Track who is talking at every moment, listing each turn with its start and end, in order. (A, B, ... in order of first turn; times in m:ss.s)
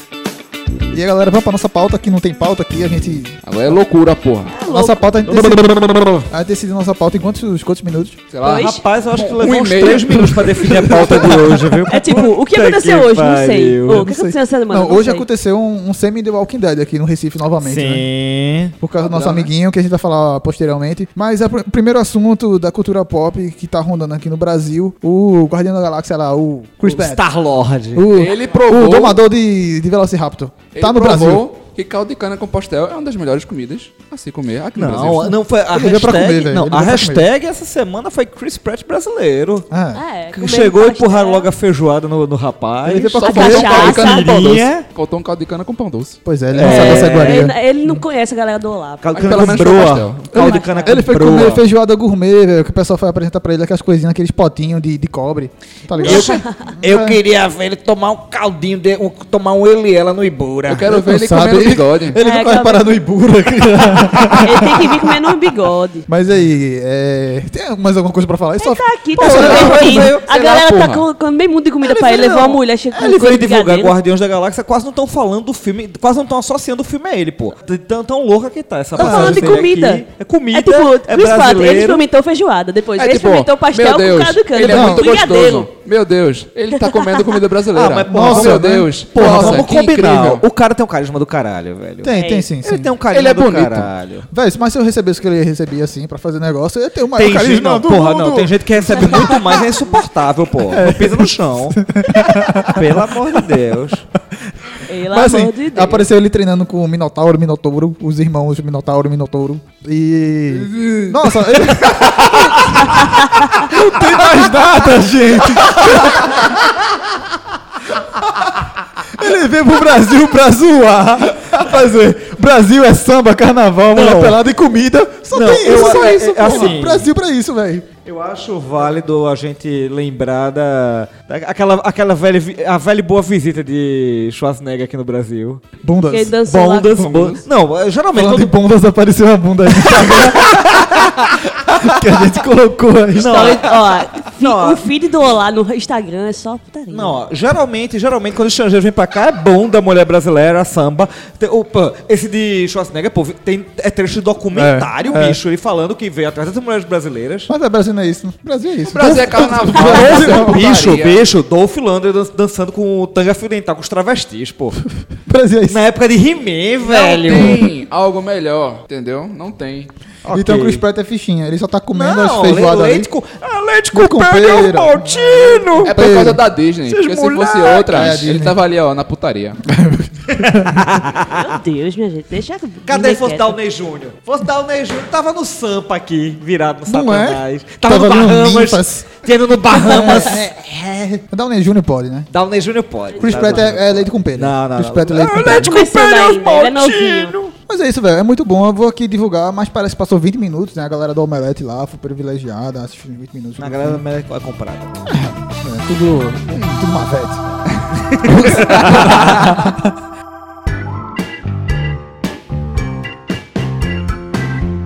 0:00.9-0:03.4 A
0:03.4-0:04.5 B
0:04.5-0:05.1 C
0:04.7-0:08.2 A
0:05.2-0:06.3 D
0:08.3-0:11.7 B
0:08.4-0:08.8 C
0:08.6-0:14.0 D
0:11.8-0:15.3 C
0:13.9-0:18.1 A
0:17.6-0:18.7 D
0:18.8-0:27.2 A
0:19.0-0:19.5 B
0:26.8-0:28.1 D
0:27.9-0:31.5 A
0:28.1-0:29.2 B
0:30.7-0:35.4 B
0:34.7-0:39.7 D
0:35.7-0:37.3 A
0:39.7-0:40.0 A
0:39.9-0:41.5 C
0:40.3-0:44.8 D
0:42.8-0:43.9 A
0:43.0-0:46.2 B
0:43.2-0:44.3 C
0:46.2-0:47.5 A
0:46.5-0:47.4 D
0:46.6-0:49.3 C
0:49.0-0:51.6 D
0:49.1-0:50.3 B
0:50.3-0:51.1 C
0:50.8-0:57.2 A
0:56.0-1:00.8 D
0:56.0-0:56.7 C
1:00.7-1:02.2 B
1:00.8-1:05.0 A
1:02.2-1:03.0 C
1:04.4-1:06.0 C
1:06.1-1:09.8 A
1:08.6-1:13.9 C
1:09.2-1:10.3 D
1:09.3-1:11.1 B
1:11.8-1:22.0 D
1:18.9-1:19.6 A
1:18.9-1:25.7 C
1:23.0-1:30.4 B
1:24.7-1:25.1 A
1:26.8-1:27.3 C
1:27.7-1:34.3 D
1:28.1-1:29.7 A
1:32.0-1:32.9 A
1:32.1-1:32.5 C
1:33.1-1:33.9 B
1:34.3-1:39.4 A
1:37.1-1:41.8 D
1:40.7-1:43.1 A
1:42.6-1:44.0 D
1:44.8-1:46.1 C
1:45.1-1:53.0 A
1:50.5-1:52.3 B
1:53.5-1:56.4 A
1:59.1-2:07.9 A
2:03.9-2:04.4 D
2:05.3-2:07.1 D
2:08.0-2:15.6 D
2:15.8-2:16.4 A
2:16.0-2:17.0 C
2:16.4-2:18.6 D
2:17.0-2:17.4 B
2:18.1-2:23.6 A
2:19.8-2:20.5 D
2:23.1-2:24.8 D
2:23.2-2:27.2 C
2:26.9-2:37.5 D
2:34.5-2:35.4 A
2:37.5-2:40.8 A
2:38.8-2:41.3 B
2:39.0-2:44.8 D
2:45.1-2:45.8 A
2:45.7-2:47.7 D
2:46.8-2:49.9 B
2:47.3-2:47.6 A
2:50.2-2:50.8 D
2:50.3-2:53.1 A
2:51.9-2:56.0 D
2:53.9-2:56.4 A
2:55.8-2:59.6 B
2:56.8-2:58.3 D
2:57.9-2:58.6 A
2:59.6-3:00.9 A
3:00.4-3:01.2 D
3:01.2-3:03.6 C
3:02.9-3:11.2 D
3:06.8-3:09.1 A
3:09.7-3:12.3 A
3:12.3-3:17.5 D
3:13.1-3:15.7 A
3:15.3-3:17.4 C
3:17.7-3:24.0 A
3:23.6-3:25.0 D
3:25.1-3:27.4 A
3:26.5-3:26.8 B
3:28.1-3:28.9 D
3:28.2-3:29.8 A
3:28.7-3:29.2 B